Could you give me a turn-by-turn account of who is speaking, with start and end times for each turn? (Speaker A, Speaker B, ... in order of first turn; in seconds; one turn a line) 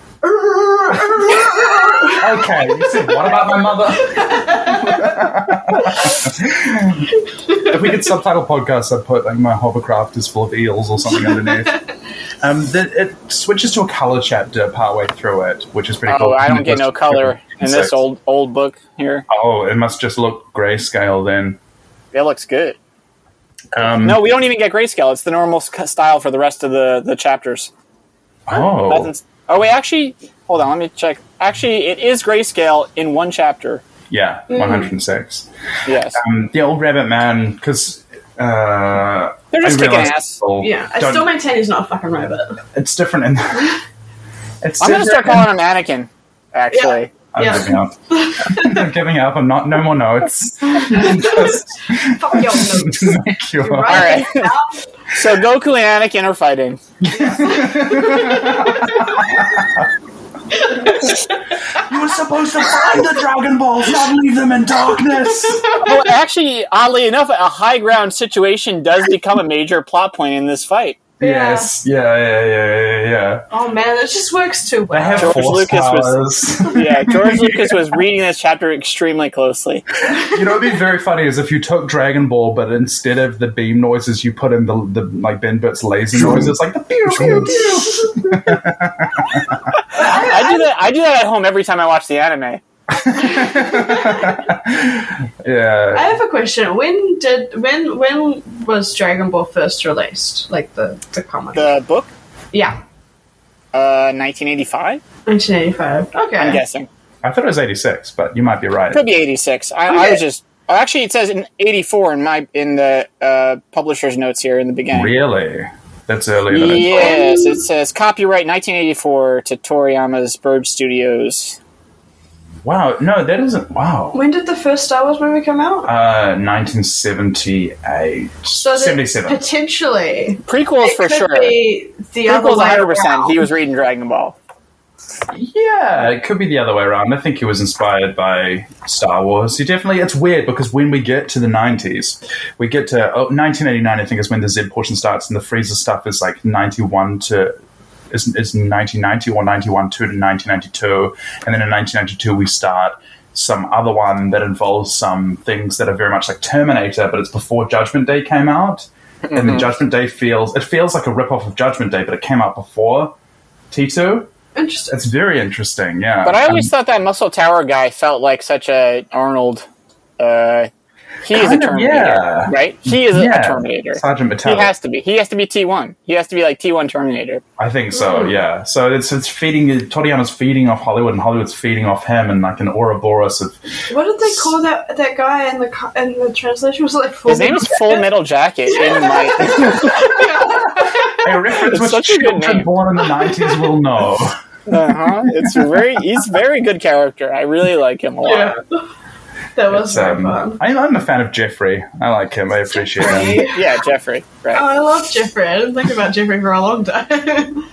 Speaker A: 0.2-5.3
Speaker B: 0.9-11.8
Speaker A: 11.1-11.8
Speaker B: 12.4-18.0
Speaker C: 16.1-19.2
Speaker B: 19.3-21.6
Speaker C: 22.1-22.8
Speaker B: 23.7-24.2
Speaker C: 24.0-27.7
Speaker B: 28.5-29.1
Speaker C: 28.5-33.8
Speaker B: 34.1-35.5
Speaker A: 34.5-34.9
Speaker C: 35.9-36.2
Speaker B: 36.1-41.3
Speaker C: 39.5-40.4
Speaker A: 40.6-42.6
Speaker B: 42.7-43.8
Speaker B: 44.6-45.5
Speaker C: 44.8-47.1
Speaker A: 46.7-48.9
Speaker B: 47.3-54.1
Speaker A: 50.7-54.8
Speaker C: 53.9-54.5
Speaker C: 55.1-56.8
Speaker B: 57.0-59.9
Speaker A: 57.3-59.2
Speaker A: 60.5-61.3
Speaker B: 60.8-65.8
Speaker A: 65.4-66.1
Speaker C: 65.8-71.0
Speaker A: 71.2-71.7
Speaker B: 71.2-73.5
Speaker A: 73.5-75.6
Speaker B: 74.9-77.8
Speaker C: 75.2-79.9
Speaker B: 80.1-89.7
Speaker C: 87.1-87.7
Speaker A: 87.2-88.6
Speaker C: 89.9-92.6
Speaker A: 90.0-90.6
Speaker B: 92.9-96.1
Speaker A: 93.4-94.4
Speaker A: 95.9-101.7
Speaker C: 101.5-102.1
Speaker A: 102.5-102.8
Speaker C: 103.7-105.0
Speaker A: 105.2-106.6
Speaker C: 106.4-106.9
Speaker B: 107.2-109.0
Speaker C: 108.9-115.2
Speaker A: 109.9-110.2
Speaker B: 114.9-117.1
Speaker C: 116.5-121.6
Speaker A: 116.9-117.6
Speaker B: 122.6-124.2
Speaker A: 124.1-125.9
Speaker B: 125.8-129.4
Speaker A: 128.6-133.4
Speaker C: 130.5-131.6
Speaker C: 132.2-134.3
Speaker B: 135.3-147.6
Speaker B: 148.1-163.1
Speaker C: 159.2-159.7
Speaker B: 163.7-164.3
Speaker A: 164.5-164.9
Speaker B: 164.9-166.7
Speaker C: 166.2-169.7
Speaker C: 170.2-170.7
Speaker C: 171.2-177.4
Speaker B: 171.3-174.7
Speaker B: 177.6-183.6
Speaker A: 177.9-178.4
Speaker A: 183.9-188.1
Speaker B: 184.2-184.5
Speaker C: 187.3-190.5
Speaker A: 188.7-191.3
Speaker B: 190.7-194.4
Speaker C: 191.5-192.7
Speaker A: 193.3-193.6
Speaker C: 194.7-198.6
Speaker A: 198.2-198.8
Speaker A: 199.6-200.6
Speaker B: 199.7-203.5
Speaker A: 202.7-203.8
Speaker C: 203.5-204.7
Speaker A: 204.5-207.6